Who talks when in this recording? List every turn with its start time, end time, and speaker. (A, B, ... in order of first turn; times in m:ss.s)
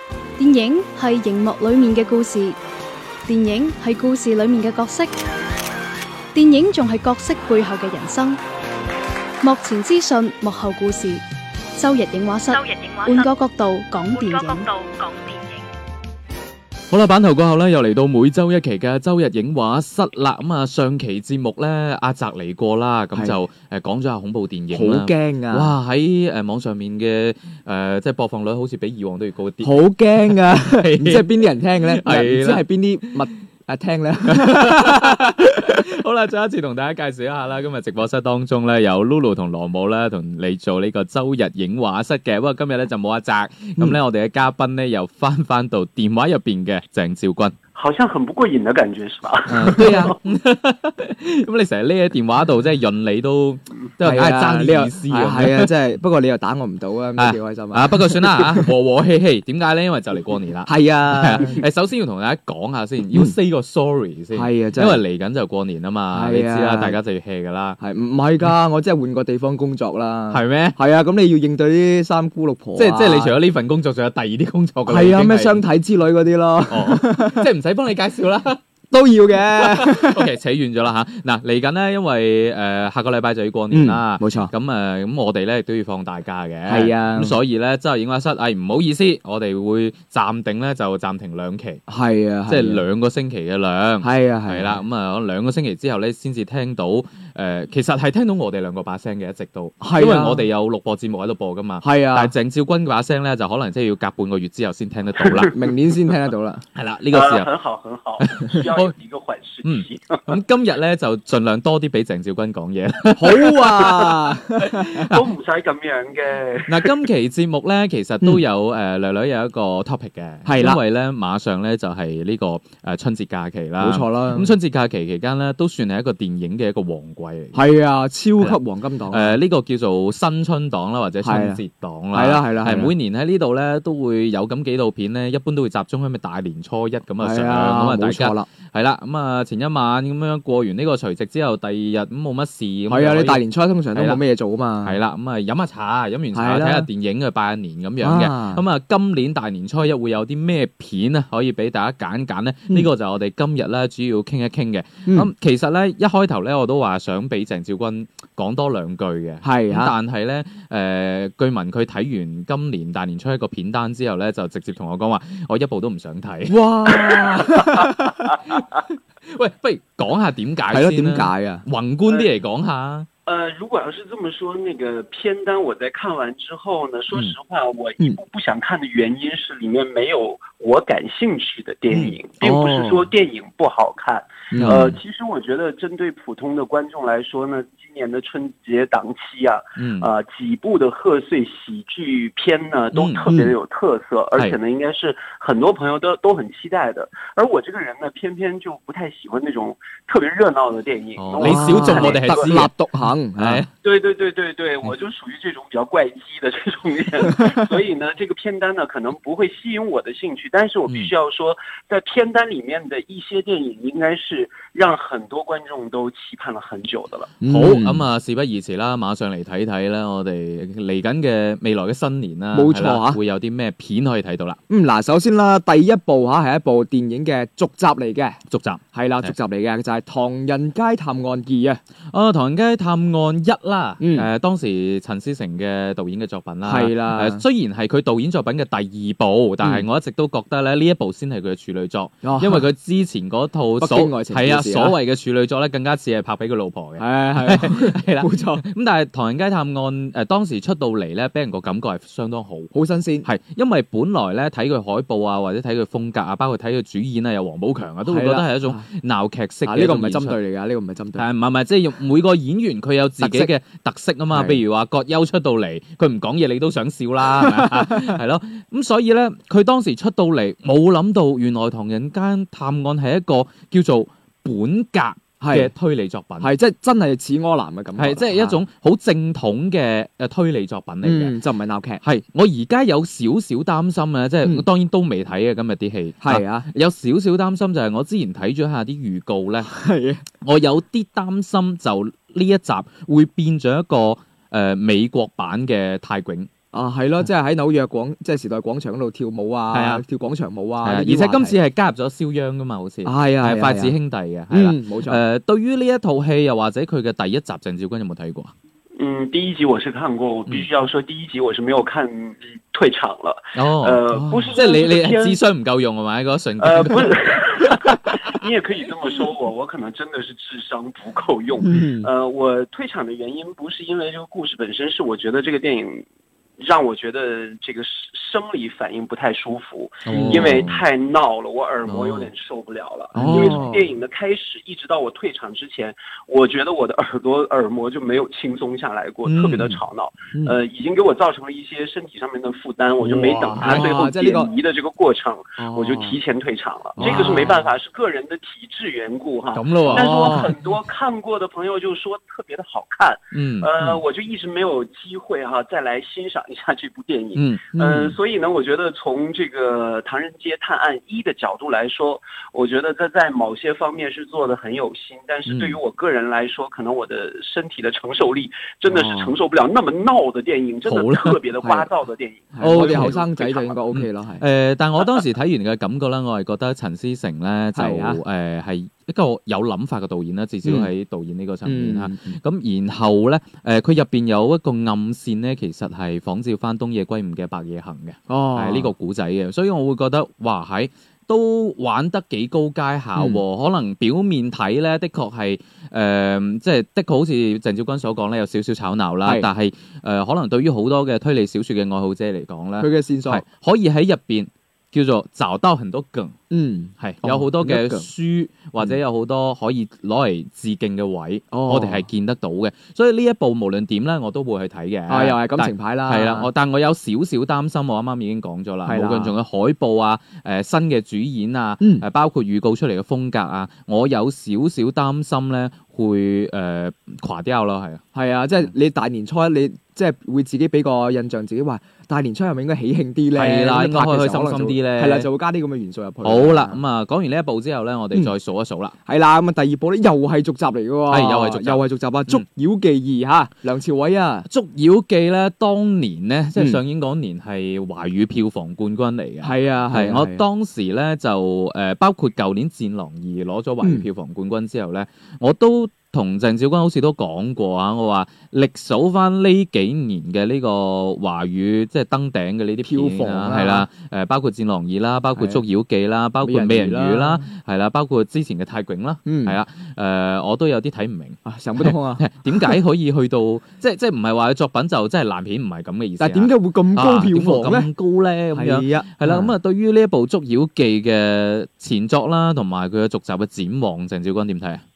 0:00.4-0:02.6 A
0:03.3-0:05.1 A
0:06.3-0:08.4 A
0:09.4-0:11.2 A
0:11.8-0:14.7 A
0:12.5-0:13.2 B
0:14.1-0:15.7 B
0:16.9-0:33.3 C
0:24.7-0:25.7 D
0:29.6-0:35.3 D
0:34.3-0:47.6 C
0:47.8-0:50.2 E
0:49.5-0:55.7 C
0:49.7-0:50.2 D
0:54.0-0:58.7 D
0:57.2-1:07.8 C
1:00.6-1:01.6 D
1:04.3-1:05.0 D
1:06.1-1:07.0 D
1:07.8-1:13.4 D
1:10.3-1:10.8 C
1:12.8-1:15.6 C
1:14.9-1:17.5 D
1:16.7-1:18.6 C
1:18.9-1:20.3 D
1:19.5-1:31.8 C
1:23.7-1:24.5 D
1:26.7-1:27.4 D
1:31.9-1:32.8 D
1:32.5-1:45.6 C
1:34.0-1:34.8 D
1:39.8-1:40.4 D
1:41.8-1:42.3 D
1:45.4-1:46.6 D
1:46.8-1:47.5 C
1:47.1-1:50.4 E
1:48.2-1:48.9 C
1:49.6-1:55.2 C
1:53.2-1:55.0 D
1:54.9-1:56.9 E
1:56.7-2:07.6 C
2:00.4-2:00.8 D
2:03.8-2:04.5 D
2:07.5-2:09.4 D
2:08.4-2:23.4 C
2:11.2-2:12.9 D
2:17.2-2:18.5 D
2:22.9-2:25.0 D
2:23.9-2:24.2 C
2:24.8-2:46.6 C
2:26.3-2:26.9 D
2:28.0-2:28.6 D
2:39.4-2:39.9 D
2:46.5-2:48.3 D
2:47.4-2:48.6 C
2:49.2-2:53.1 C
2:50.7-2:51.6 D
2:52.1-2:52.3 E
2:53.3-3:22.6 E
3:01.9-3:02.2 C
3:02.4-3:02.9 D
3:04.5-3:04.9 D
3:04.6-3:05.0 C
3:09.8-3:10.1 C
3:12.9-3:13.3 C
3:21.2-3:22.7 C
3:21.4-3:23.6 D
3:23.4-3:23.7 C
3:23.8-3:37.3 E
3:30.9-3:31.1 C
3:37.4-3:38.1 D
3:37.5-3:44.6 C
3:42.5-3:43.2 D
3:44.7-3:48.4 D
3:48.5-3:49.3 C
3:48.9-3:51.8 D
3:52.1-4:12.7 C
3:54.0-3:54.3 D
3:56.6-3:57.4 D
4:02.2-4:02.7 D
4:03.8-4:05.0 D
4:07.0-4:08.6 D
4:12.7-4:13.3 D
4:13.2-4:20.4 C
4:18.0-4:18.8 D
4:19.7-4:21.3 D
4:21.2-4:36.5 C
4:23.2-4:23.5 D
4:24.3-4:24.6 D
4:27.4-4:27.8 D
4:35.4-4:35.7 D
4:36.4-4:38.6 D
4:38.0-4:41.4 C
4:41.0-4:42.0 D
4:42.0-4:49.7 C
4:46.2-4:46.7 D
4:49.6-4:50.2 D
4:50.4-4:56.5 C
4:56.7-5:01.6 D
4:59.7-5:00.0 C
5:00.8-5:08.5 C
5:03.0-5:04.0 D
5:04.5-5:05.2 D
5:09.0-5:15.4 E
5:13.6-5:18.4 C
5:14.1-5:14.6 D
5:16.6-5:26.0 E
5:21.6-5:22.1 D
5:26.6-6:13.8 E
5:30.0-5:30.8 C
5:30.1-5:30.6 D
5:31.8-5:32.3 C
5:33.1-5:33.9 D
5:33.2-5:33.6 C
5:39.2-5:39.8 C
5:43.0-5:43.9 C
5:43.6-5:44.5 D
5:45.6-5:46.2 D
5:47.0-5:47.6 D
5:47.0-5:47.4 C
5:49.5-5:50.5 C
5:49.9-5:50.5 D
5:53.3-5:54.0 C
5:57.4-5:57.7 C
5:57.7-5:58.2 D
6:05.5-6:05.8 C
6:08.9-6:09.3 D
6:10.9-6:11.4 C
6:11.6-6:11.9 D
6:12.5-6:14.4 D
6:12.6-6:13.2 C
6:13.9-6:46.4 C
6:17.8-6:18.2 D
6:20.6-6:20.9 D
6:21.7-6:22.4 D
6:28.3-6:28.9 D
6:33.2-6:33.4 D
6:39.2-6:39.5 D
6:42.8-6:43.4 D
6:46.5-6:48.1 D
6:47.0-7:08.0 C
6:51.5-6:52.0 D
6:55.1-6:56.5 D
6:58.8-6:59.4 D
7:08.1-7:16.8 D
7:13.3-7:15.3 C
7:16.2-7:19.0 C
7:19.1-7:24.5 D
7:21.1-7:22.4 C
7:24.5-8:04.8 C
7:29.4-7:30.4 D
7:42.8-7:43.9 D
7:45.4-7:45.6 D
7:46.4-7:47.4 D
7:49.3-7:49.6 D
7:51.4-7:52.8 D
7:56.2-7:57.9 D
7:58.5-7:59.5 D